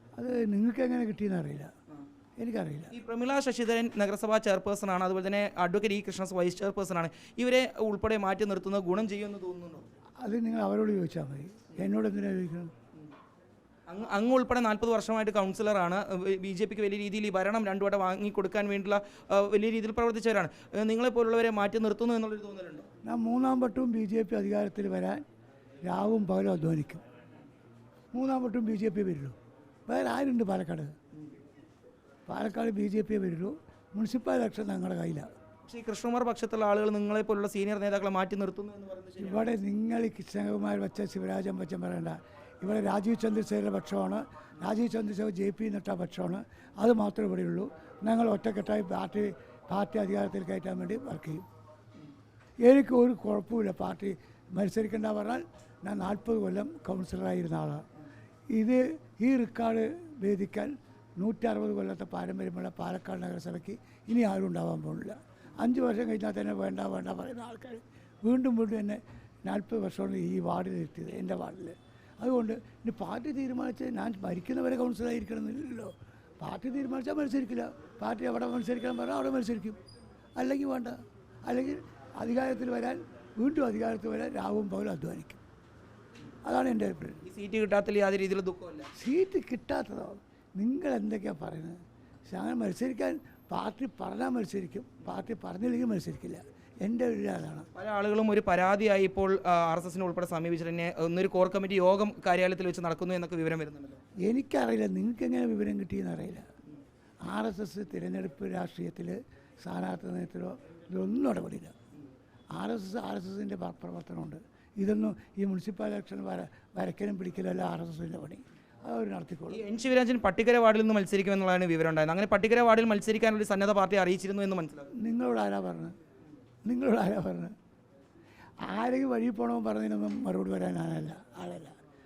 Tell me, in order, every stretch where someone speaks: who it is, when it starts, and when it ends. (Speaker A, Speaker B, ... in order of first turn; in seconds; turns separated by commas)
Speaker A: 0.2-1.7, Speaker A: 2.4-2.9, Speaker B: 2.9-9.9, Speaker A: 10.2-12.7, Speaker B: 13.9-22.9, Speaker A: 23.0-25.2, Speaker A: 25.9-27.0, Speaker A: 28.1-30.9, Speaker A: 32.3-35.3, Speaker B: 35.7-39.5, Speaker A: 39.2-51.5, Speaker A: 52.6-57.8, Speaker A: 58.5-79.8, Speaker A: 80.4-85.4, Speaker A: 86.5-87.2, Speaker B: 87.2-88.9, Speaker A: 89.0-97.7, Speaker B: 97.8-104.0, Speaker A: 104.2-106.5, Speaker A: 107.3-111.8, Speaker A: 112.5-119.6, Speaker B: 119.5-124.9, Speaker A: 125.0-126.0, Speaker A: 126.7-127.5, Speaker A: 128.6-131.8